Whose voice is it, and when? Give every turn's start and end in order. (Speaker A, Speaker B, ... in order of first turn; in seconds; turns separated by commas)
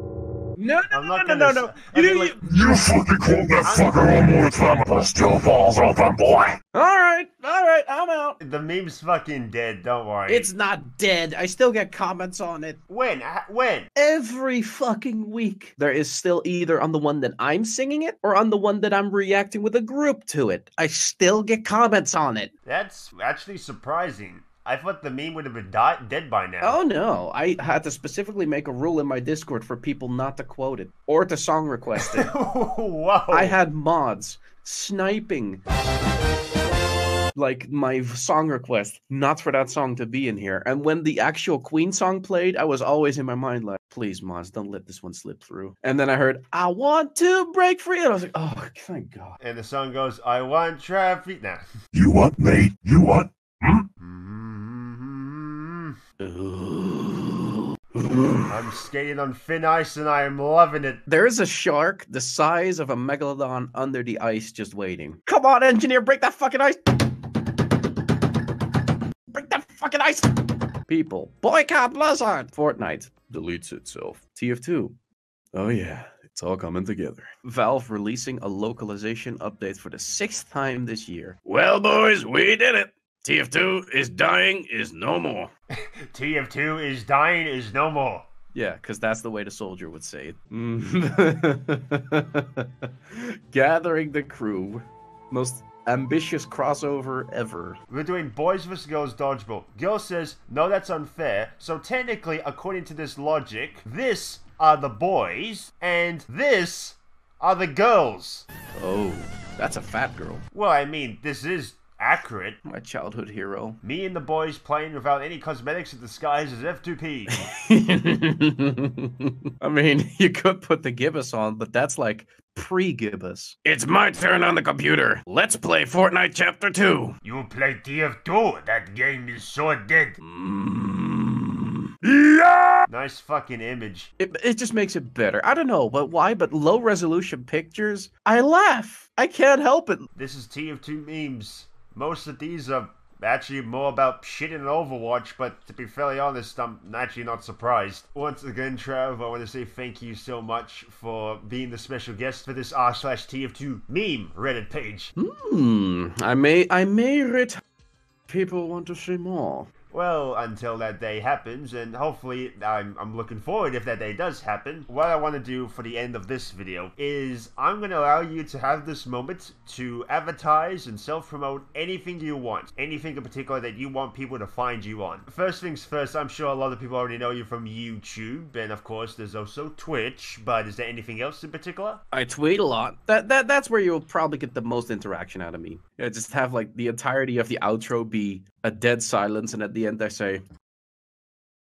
Speaker A: 0.6-2.4, Speaker B: 0.9-2.4, Speaker C: 2.4-6.6, Speaker B: 3.6-4.2, Speaker A: 6.7-8.4, Speaker B: 8.4-10.5, Speaker A: 10.3-12.8, Speaker B: 12.9-13.9, Speaker A: 13.9-22.5, Speaker B: 22.6-26.8, Speaker A: 26.6-32.3, Speaker B: 31.9-33.6, Speaker A: 33.3-35.6, Speaker A: 37.3-49.4, Speaker B: 49.4-51.7, Speaker C: 51.9-53.8, Speaker B: 54.0-56.0, Speaker A: 56.2-58.6, Speaker B: 58.5-61.0, Speaker A: 61.1-66.8, Speaker A: 69.3-70.3, Speaker A: 70.9-74.9, Speaker A: 75.5-85.5, Speaker B: 85.8-88.2, Speaker A: 88.5-97.8, Speaker B: 97.9-108.5, Speaker A: 108.7-110.4, Speaker B: 110.5-112.6, Speaker A: 112.6-113.8, Speaker B: 113.8-117.3, Speaker A: 117.4-127.2, Speaker B: 127.2-130.2, Speaker A: 130.2-132.8, Speaker B: 132.9-134.1, Speaker A: 134.2-140.1, Speaker B: 140.1-155.1, Speaker A: 155.2-157.6, Speaker A: 158.3-159.7, Speaker B: 159.9-182.0, Speaker A: 182.1-190.4